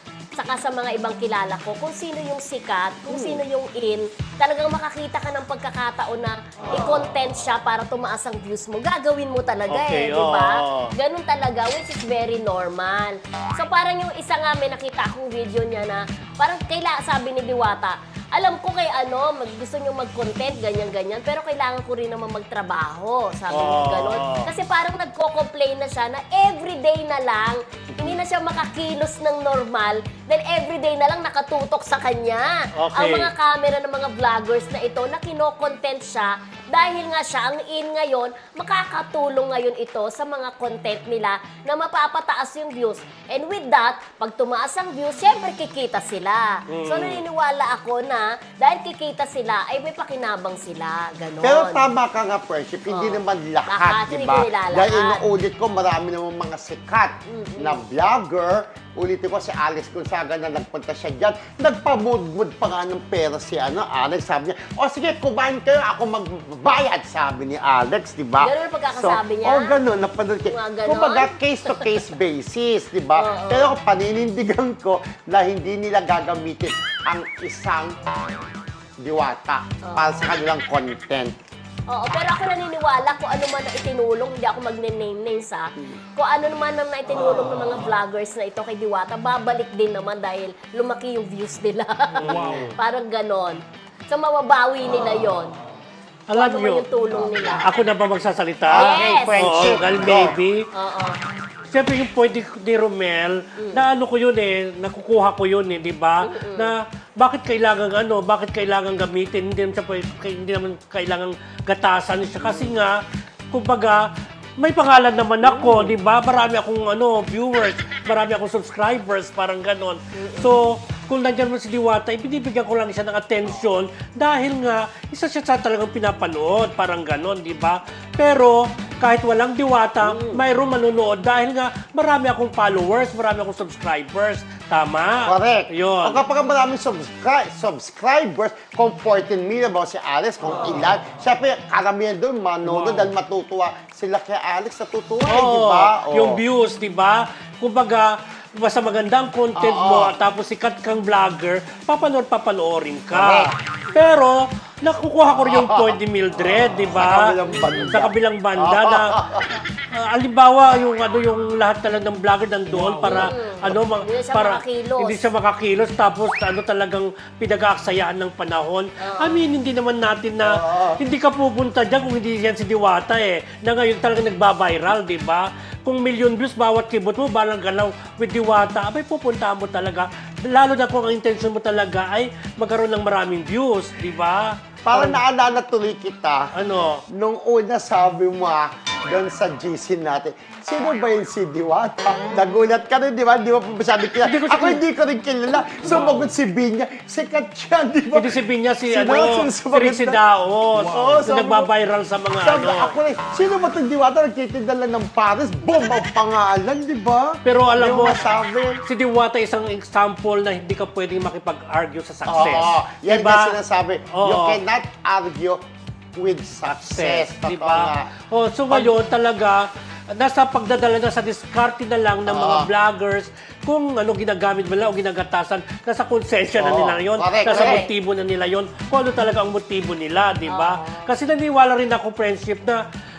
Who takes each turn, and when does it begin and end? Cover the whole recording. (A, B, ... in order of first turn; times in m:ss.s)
0:00.4-0:51.9 A
0:03.1-0:03.4 B
0:09.7-0:10.9 C
0:23.5-0:24.5 C
0:32.8-0:33.3 C
0:46.7-0:47.2 C
0:51.4-1:18.1 B
0:52.9-0:55.2 A
0:57.3-0:57.8 A
1:08.4-1:09.8 A
1:10.5-1:11.9 A
1:13.2-1:13.7 A
1:19.0-1:21.4 B
1:19.8-1:20.2 A
1:21.9-1:35.5 A
1:32.1-1:32.8 C
1:32.2-1:32.7 B
1:36.3-1:36.9 C
1:36.3-1:37.7 A
1:37.1-1:37.4 B
1:37.6-1:40.7 C
1:38.7-1:40.4 B
1:38.8-1:39.4 A
1:40.7-1:41.2 A
1:41.7-1:53.0 C
1:43.6-1:43.8 A
1:46.2-1:46.7 A
1:53.5-1:54.0 C
1:54.6-2:16.2 C
1:55.4-1:55.9 A
2:00.1-2:00.5 A
2:10.1-2:10.4 A
2:15.2-2:26.4 B
2:22.6-2:23.1 C
2:25.2-2:39.2 C
2:29.6-2:30.2 B
2:33.1-2:33.6 B
2:35.4-2:36.0 B
2:36.9-2:39.6 B
2:37.5-2:37.9 A
2:39.8-3:05.2 C
2:42.7-2:43.3 B
2:43.0-2:45.3 A
2:49.0-2:49.4 A
2:50.4-2:51.0 B
3:04.8-3:06.5 B
3:06.6-3:07.0 C
3:07.1-3:18.4 B
3:14.2-3:14.8 C
3:15.8-3:16.2 C
3:18.1-3:23.0 C
3:18.9-3:20.2 B
3:20.7-3:21.7 B
3:22.4-3:28.8 B
3:27.4-3:28.3 C
3:28.9-3:33.6 C
3:32.2-3:35.6 B
3:34.1-3:34.6 C
3:36.2-3:38.1 B
3:36.8-3:52.8 C
3:38.7-3:39.0 B
3:42.2-3:42.7 B
3:46.6-3:47.8 B
3:47.4-3:47.9 A
3:50.5-3:51.2 A